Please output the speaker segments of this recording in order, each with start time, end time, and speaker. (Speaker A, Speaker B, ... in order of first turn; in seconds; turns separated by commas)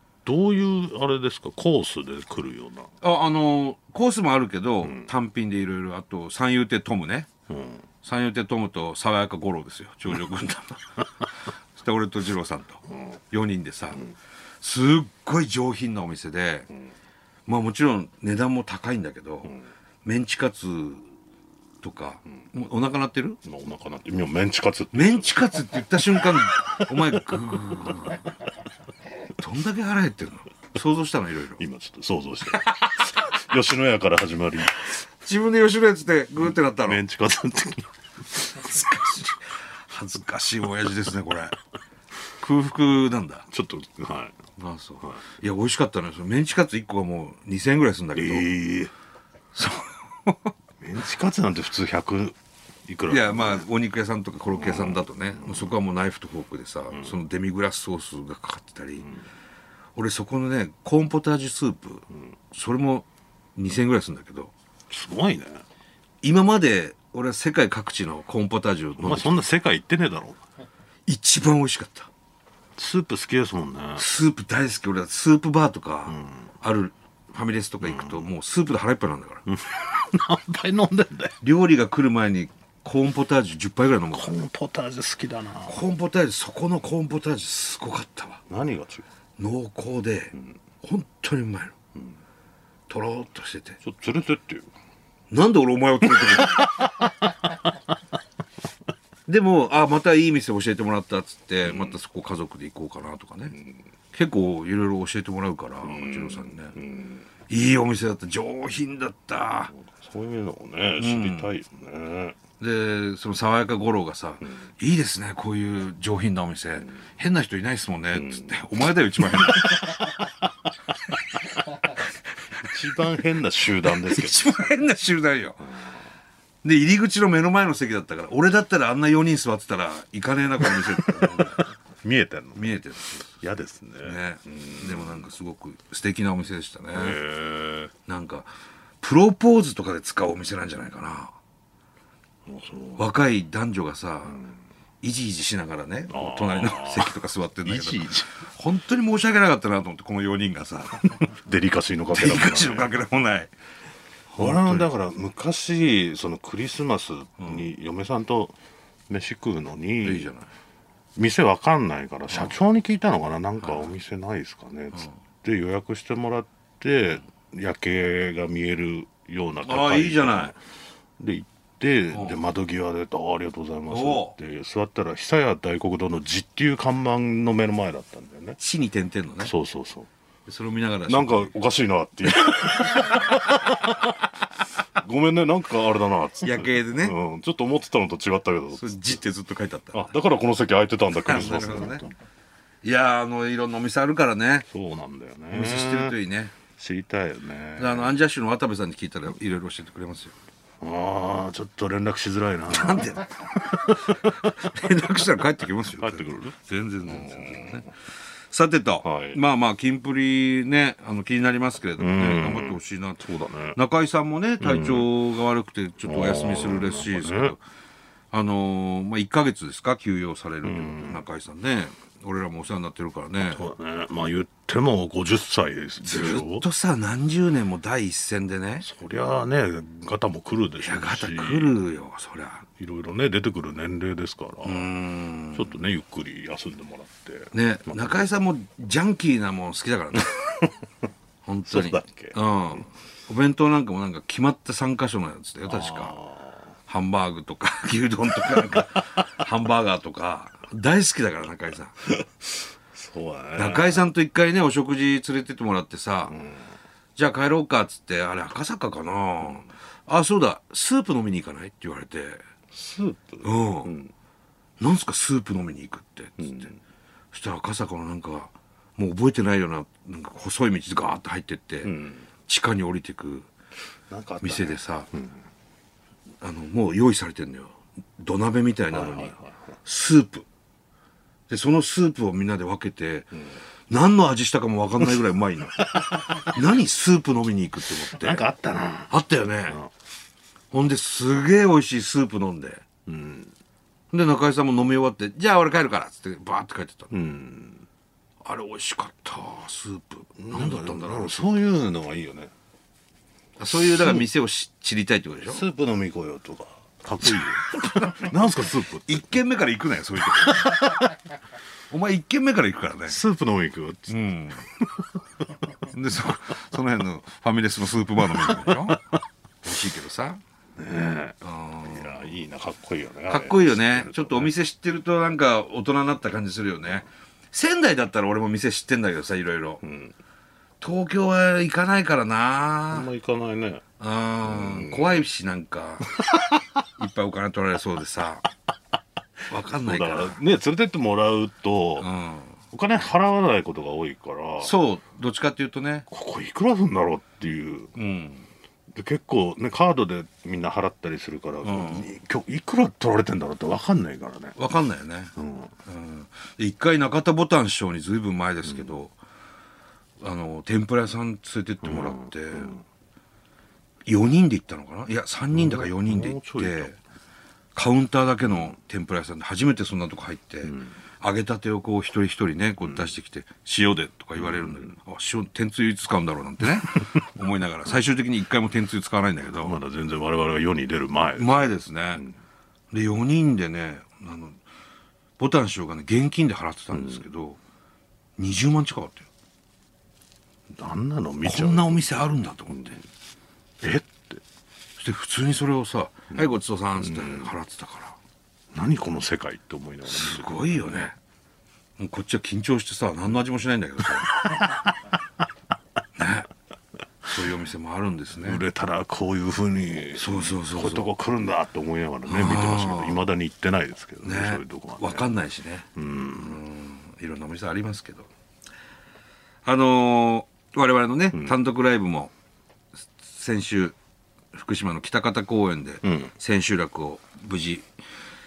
Speaker A: 0.2-2.9, Speaker B: 3.0-7.3, Speaker A: 7.5-7.8, Speaker B: 8.0-11.1, Speaker B: 11.8-14.1, Speaker B: 14.6-16.7, Speaker B: 17.5-21.1, Speaker B: 21.8-23.4, Speaker A: 23.4-25.4, Speaker B: 24.9-28.2, Speaker B: 29.4-31.6, Speaker A: 31.6-34.9, Speaker B: 32.5-33.1, Speaker B: 35.2-37.0, Speaker A: 36.8-38.7, Speaker B: 38.5-41.6, Speaker B: 42.4-43.5, Speaker A: 43.5-44.4, Speaker B: 44.6-48.5, Speaker A: 48.1-48.9, Speaker B: 49.5-50.5, Speaker A: 50.8-53.7, Speaker B: 53.1-59.1, Speaker A: 54.5-55.7, Speaker B: 60.0-64.5, Speaker A: 64.9-65.6, Speaker B: 66.2-69.4, Speaker A: 69.0-70.4, Speaker B: 71.1-72.1, Speaker A: 72.8-74.0, Speaker B: 74.0-79.4, Speaker A: 76.1-76.5, Speaker A: 77.8-78.3, Speaker A: 79.5-81.3, Speaker B: 81.4-84.3, Speaker A: 84.1-85.8, Speaker B: 85.7-88.4, Speaker A: 88.5-89.0, Speaker B: 89.4-91.8, Speaker B: 92.9-93.8, Speaker A: 93.8-94.7, Speaker B: 95.3-96.8, Speaker A: 96.2-97.6, Speaker B: 99.3-103.6, Speaker A: 101.7-101.9, Speaker B: 104.1-106.8, Speaker A: 105.8-107.2, Speaker B: 107.5-109.7, Speaker A: 109.7-112.4, Speaker B: 111.0-111.5, Speaker B: 112.6-120.1, Speaker A: 118.2-118.5, Speaker A: 119.2-120.3, Speaker A: 122.6-124.7, Speaker B: 123.8-125.7, Speaker B: 126.6-131.7, Speaker A: 130.8-131.5, Speaker A: 132.0-132.8, Speaker B: 132.6-133.4, Speaker A: 133.4-135.3, Speaker B: 134.0-137.2, Speaker A: 136.9-137.9, Speaker B: 138.1-138.5, Speaker B: 139.0-141.3, Speaker A: 142.5-143.0, Speaker B: 143.0-144.4, Speaker B: 145.0-151.2, Speaker A: 146.1-148.3, Speaker A: 151.2-152.9, Speaker B: 152.1-153.5, Speaker B: 154.3-154.9, Speaker A: 154.4-158.6, Speaker B: 157.4-157.7, Speaker A: 159.1-160.3, Speaker B: 160.0-160.5, Speaker A: 161.2-170.6, Speaker B: 163.6-163.9, Speaker B: 169.6-170.5, Speaker A: 171.2-178.6, Speaker B: 173.9-174.3, Speaker B: 178.6-179.5, Speaker A: 179.4-180.1, Speaker B: 180.5-181.5, Speaker A: 181.1-189.2, Speaker B: 186.4-187.2, Speaker B: 188.8-190.1, Speaker A: 189.9-192.2, Speaker B: 191.2-192.0, Speaker B: 192.8-194.7, Speaker A: 194.7-196.2, Speaker B: 195.5-196.5, Speaker A: 196.7-198.1, Speaker B: 197.8-200.3, Speaker A: 200.8-204.7, Speaker B: 202.7-207.9, Speaker A: 206.0-207.9, Speaker B: 208.5-217.6, Speaker A: 209.0-209.4, Speaker A: 212.0-213.8, Speaker A: 214.6-215.1, Speaker A: 216.0-217.6, Speaker B: 218.3-223.6, Speaker A: 220.6-221.2, Speaker A: 223.5-226.7, Speaker B: 226.0-228.9, Speaker A: 228.8-231.8, Speaker B: 230.8-232.7, Speaker A: 232.7-234.9, Speaker B: 234.6-235.8, Speaker A: 235.5-238.2, Speaker B: 237.5-240.4, Speaker A: 240.4-240.7, Speaker B: 241.4-246.1, Speaker A: 241.7-242.3, Speaker A: 245.7-246.6, Speaker B: 246.9-251.9, Speaker A: 252.0-254.0, Speaker B: 253.6-256.4, Speaker A: 256.3-256.7, Speaker B: 257.2-262.4, Speaker A: 262.7-264.1, Speaker B: 263.4-263.9, Speaker B: 264.8-266.7, Speaker A: 266.4-266.8, Speaker B: 267.3-271.9, Speaker A: 271.8-272.2, Speaker B: 272.5-273.5, Speaker A: 274.1-275.4, Speaker B: 274.4-275.1, Speaker B: 276.4-280.5, Speaker A: 278.9-279.6, Speaker B: 281.5-283.3, Speaker B: 283.9-288.5, Speaker A: 285.8-286.5, Speaker A: 288.1-289.1, Speaker B: 289.1-289.8, Speaker B: 290.7-292.8, Speaker A: 293.1-293.5, Speaker B: 294.1-297.1, Speaker A: 297.1-297.8, Speaker B: 298.4-301.5, Speaker A: 300.4-302.5, Speaker B: 303.6-305.6, Speaker A: 303.7-304.2, Speaker A: 305.4-309.3, Speaker B: 307.7-308.3, Speaker B: 309.1-311.1, Speaker A: 310.4-311.1, Speaker B: 311.9-313.2, Speaker A: 313.1-314.1, Speaker B: 314.1-314.7, Speaker A: 314.7-315.4, Speaker B: 315.9-319.0, Speaker A: 318.3-319.1, Speaker B: 319.6-320.4, Speaker A: 320.8-324.5, Speaker B: 321.4-322.3, Speaker B: 323.3-329.8, Speaker A: 329.8-330.1, Speaker B: 330.8-333.1, Speaker A: 332.9-333.8, Speaker B: 334.0-336.2, Speaker A: 334.4-335.2, Speaker A: 336.3-336.6, Speaker B: 337.0-338.5, Speaker B: 339.5-340.4, Speaker A: 339.8-342.1, Speaker B: 342.0-342.6, Speaker A: 342.7-344.8, Speaker B: 344.6-346.1, Speaker A: 346.1-347.9, Speaker B: 347.9-348.5, Speaker A: 348.9-354.6, Speaker B: 351.6-352.1, Speaker B: 354.6-355.3, Speaker A: 355.4-355.7, Speaker B: 355.9-359.1, Speaker B: 360.2-362.8, Speaker A: 361.8-362.8, Speaker B: 364.1-367.0, Speaker A: 365.5-366.9, Speaker B: 367.8-379.8, Speaker A: 374.4-374.9, Speaker A: 379.5-382.3, Speaker B: 381.4-382.2, Speaker B: 382.9-384.6, Speaker B: 385.4-387.6, Speaker B: 388.4-389.3, Speaker A: 390.8-392.8, Speaker B: 391.4-393.0, Speaker A: 393.8-394.4, Speaker B: 395.0-398.2, Speaker A: 397.0-397.5, Speaker A: 398.7-401.1, Speaker B: 400.1-401.1, Speaker B: 402.0-404.3, Speaker A: 404.4-404.9, Speaker B: 406.2-406.5, Speaker B: 407.3-408.6, Speaker A: 408.4-415.3, Speaker B: 410.2-411.1, Speaker B: 412.3-413.2, Speaker B: 414.2-415.9, Speaker A: 415.9-416.6, Speaker B: 416.4-418.3, Speaker B: 419.6-422.3, Speaker B: 423.2-424.0, Speaker B: 424.5-427.9, Speaker A: 426.0-426.3